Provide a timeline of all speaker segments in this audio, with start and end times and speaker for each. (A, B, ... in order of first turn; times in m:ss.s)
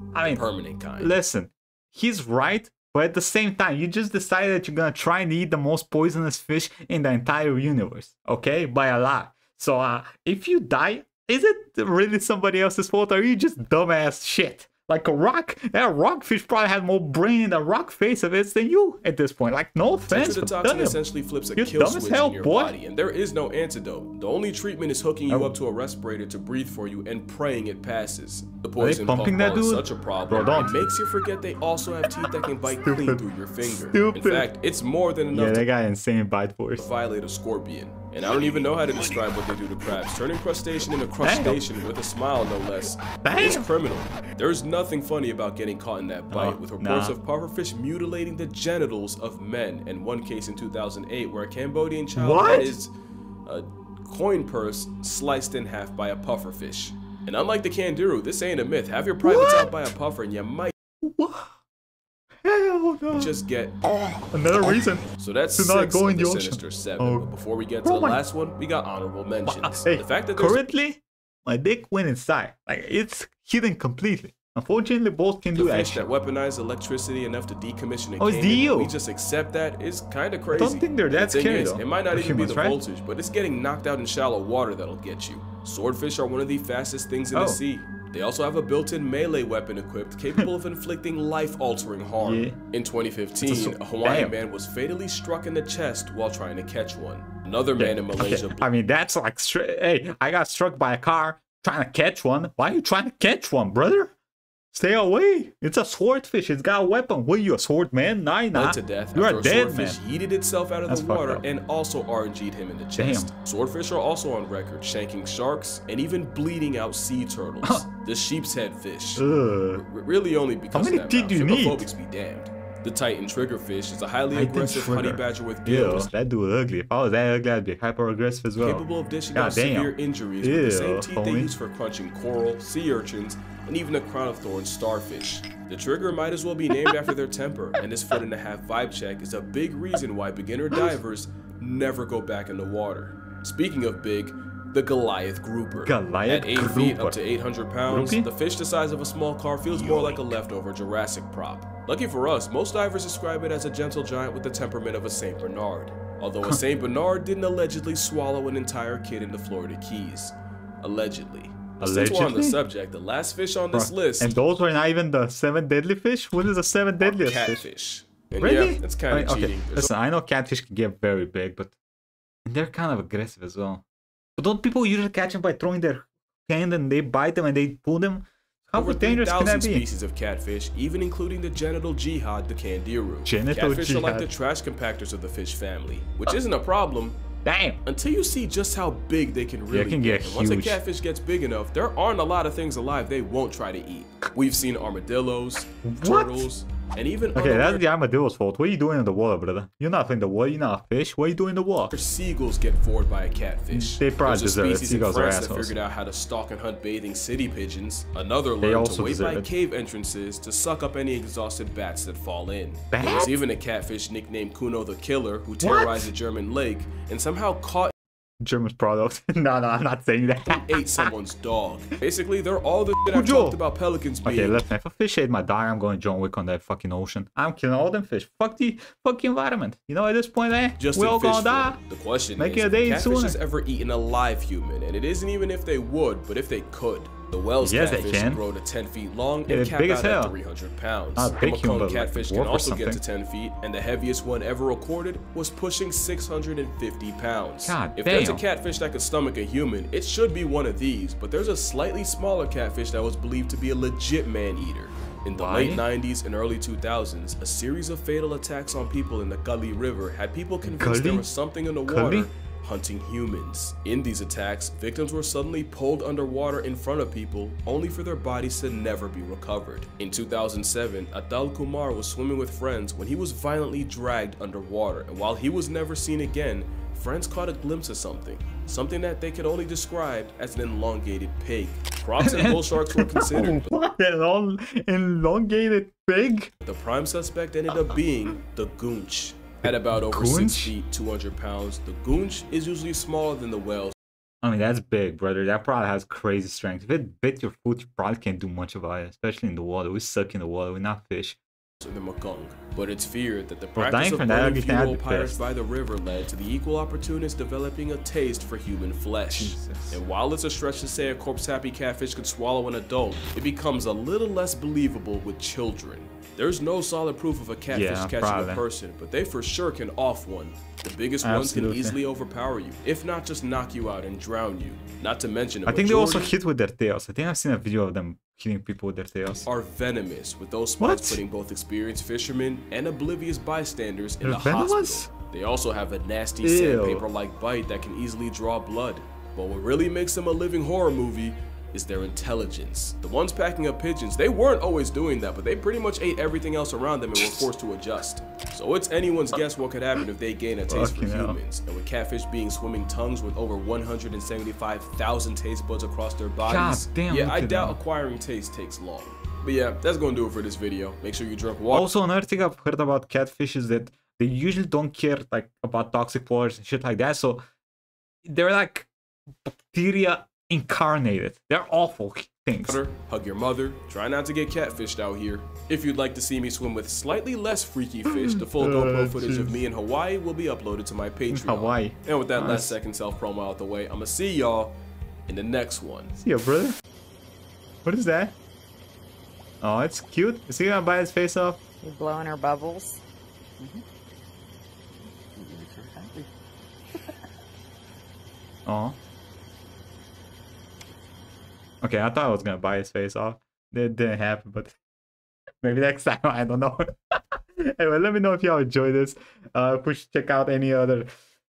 0:00.1-0:21.0 A
0:00.2-0:01.2 B
0:20.1-0:35.7 B
0:21.6-0:22.8 A
0:28.8-0:31.0 A
0:32.2-0:34.5 A
0:35.3-0:36.9 A
0:36.8-0:52.9 B
0:41.2-0:41.6 A
0:43.0-0:43.7 A
0:46.3-0:47.2 A
0:52.1-0:52.8 A
0:53.4-1:00.7 B
0:59.2-0:59.9 A
1:01.0-1:01.5 A
1:02.4-1:03.3 A
1:03.1-1:03.8 B
1:04.3-1:07.3 A
1:05.2-1:10.7 B
1:07.8-1:08.2 A
1:09.4-1:16.0 A
1:15.5-1:38.6 B
1:18.2-1:18.9 A
1:20.5-1:22.8 A
1:27.3-1:27.6 A
1:32.2-1:32.6 A
1:33.4-1:34.3 A
1:37.8-1:44.1 A
1:44.7-1:50.0 A
1:48.5-2:06.1 B
1:50.9-1:51.4 A
1:53.0-1:53.3 A
1:59.2-1:59.8 A
2:00.7-2:01.9 A
2:04.3-2:11.5 A
2:08.6-2:44.4 B
2:25.8-2:27.2 A
2:27.9-2:28.3 A
2:29.6-2:30.4 A
2:41.8-2:42.6 A
2:43.7-2:47.6 A
2:47.0-2:49.9 B
2:48.4-2:51.7 A
2:52.4-2:53.8 A
2:54.4-2:59.8 A
2:58.7-3:07.2 B
3:03.2-3:04.3 A
3:07.4-3:07.8 A
3:07.8-3:17.8 B
3:09.7-3:10.8 A
3:15.8-3:16.5 A
3:17.4-3:22.0 A
3:21.9-3:37.9 B
3:23.7-3:25.8 A
3:28.6-3:29.5 A
3:32.9-3:33.4 A
3:35.6-3:36.1 A
3:38.4-3:41.1 A
3:40.5-3:44.6 B
3:43.1-3:43.6 A
3:44.2-3:51.8 A
3:50.8-4:43.7 B
3:52.4-3:53.4 A
3:57.6-3:58.4 A
3:59.5-4:00.3 A
4:01.1-4:03.0 A
4:07.6-4:08.4 A
4:15.4-4:15.8 A
4:20.6-4:21.3 A
4:21.9-4:22.3 A
4:42.2-4:46.5 A
4:46.6-4:53.9 B
4:49.6-4:50.7 A
4:54.4-5:01.4 A
5:01.8-5:26.4 B
5:03.7-5:05.4 A
5:09.4-5:10.0 A
5:17.7-5:18.6 A
5:21.2-5:22.0 A
5:25.6-5:29.5 A
5:29.4-6:01.9 B
5:30.8-5:31.2 A
5:34.2-5:35.1 A
5:36.4-5:37.0 A
5:47.2-5:47.5 A
5:50.7-5:51.4 A
5:56.4-5:57.8 A
6:01.7-6:07.4 A
6:08.2-6:08.9 A
6:09.4-6:12.8 A
6:12.6-6:24.7 B
6:18.1-6:19.6 A
6:21.3-6:22.8 A
6:25.3-6:26.1 B
6:26.2-6:26.8 A
6:27.8-6:28.3 A
6:29.6-6:31.6 A
6:31.8-6:33.0 C
6:35.2-6:36.3 C
6:38.6-6:39.0 A
6:41.8-6:44.8 A
6:45.6-6:51.1 A